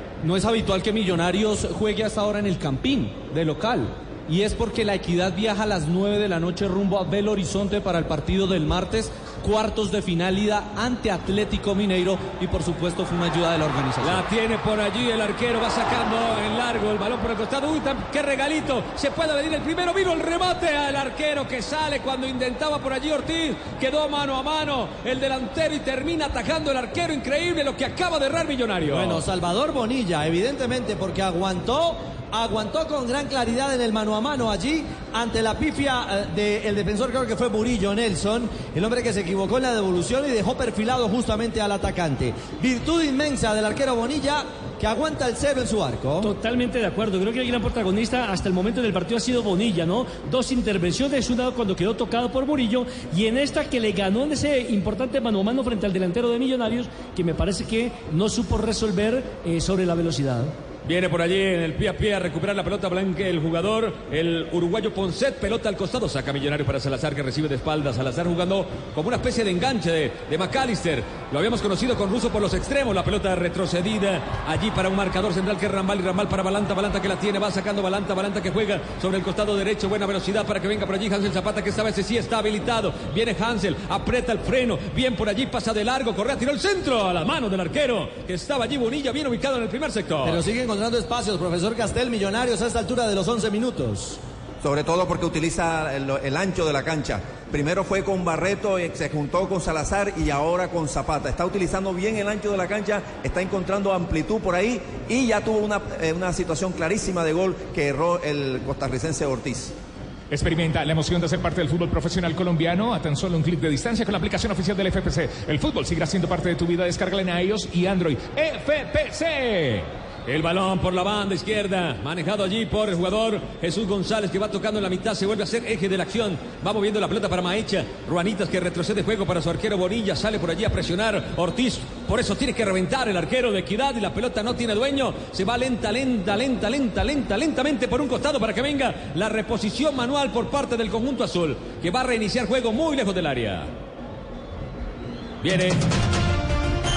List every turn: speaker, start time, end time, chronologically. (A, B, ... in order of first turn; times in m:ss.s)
0:00.2-0:14.2 A
0:14.0-0:29.2 B
0:28.8-0:46.3 C
0:46.2-1:00.5 D
1:00.8-1:30.4 B
1:30.2-1:34.2 C
1:34.6-1:49.7 E
1:50.3-1:59.9 F
2:00.2-2:23.7 B
2:25.4-2:25.8 B